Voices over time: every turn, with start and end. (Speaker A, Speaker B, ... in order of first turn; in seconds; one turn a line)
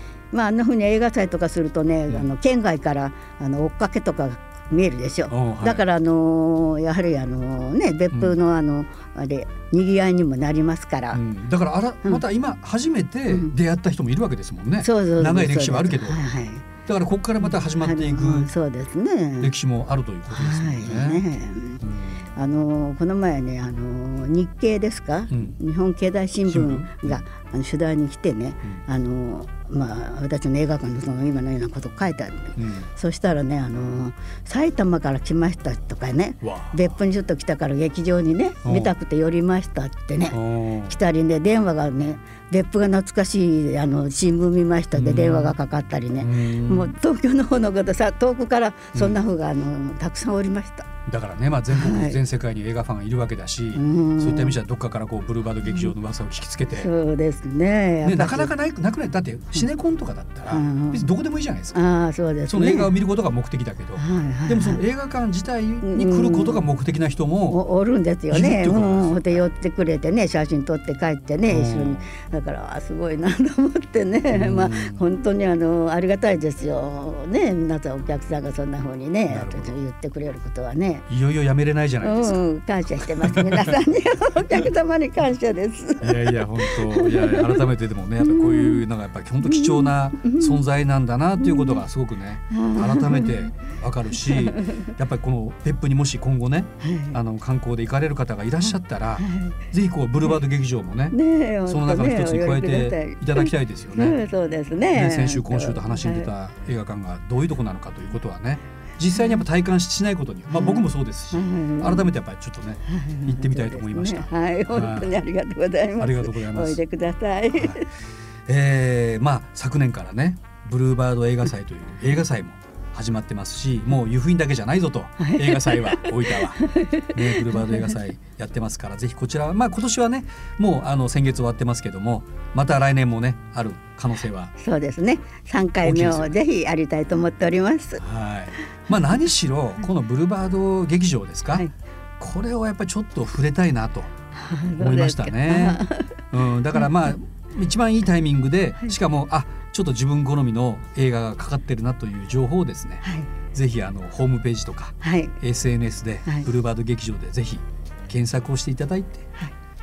Speaker A: 0.3-11.2
Speaker B: 5.3-5.8
Speaker B: 8.1-8.4
Speaker B: 11.1-16.2
Speaker A: 14.8-16.6
Speaker B: 16.9-18.5
Speaker A: 17.4-19.5
Speaker B: 19.4-21.2
Speaker A: 20.3-21.8
Speaker B: 21.8-22.2
Speaker A: 22.4-50.9
Speaker B: 25.3-25.6
Speaker B: 26.5-27.2
Speaker B: 32.6-32.9
Speaker B: 36.4-36.9
Speaker B: 38.6-38.9
Speaker B: 40.3-41.0
Speaker B: 44.9-45.6
Speaker B: 46.2-46.9
Speaker B: 48.9-49.2
Speaker B: 51.1-56.9
Speaker A: 51.7-52.2
Speaker A: 53.7-54.6
Speaker A: 56.7-58.5
Speaker B: 58.0-61.8
Speaker A: 60.5-61.1
Speaker A: 61.7-62.9
Speaker B: 62.5-67.6
Speaker A: 64.0-64.8
Speaker A: 65.8-66.6
Speaker A: 67.5-81.0
Speaker B: 68.3-69.4
Speaker B: 71.5-72.0
Speaker B: 74.3-75.0
Speaker B: 79.3-79.8
Speaker B: 81.1-82.4
Speaker A: 82.0-87.7
Speaker B: 83.0-83.8
Speaker B: 86.0-104.2
Speaker A: 88.2-88.8
Speaker A: 89.4-90.6
Speaker A: 91.4-91.8
Speaker A: 92.5-93.5
Speaker A: 94.2-94.8
Speaker A: 96.8-97.2
Speaker A: 98.6-99.6
Speaker A: 101.1-106.3
Speaker B: 104.9-115.2
Speaker A: 110.5-112.1
Speaker A: 112.9-117.9
Speaker B: 116.0-116.8
Speaker B: 117.5-117.8
Speaker B: 118.5-134.5
Speaker A: 125.2-127.9
Speaker A: 134.6-138.0
Speaker B: 135.8-136.4
Speaker B: 138.0-141.7
Speaker B: 142.2-144.1
Speaker A: 144.3-146.1
Speaker B: 144.8-159.3
Speaker A: 153.0-153.3
Speaker A: 155.0-155.3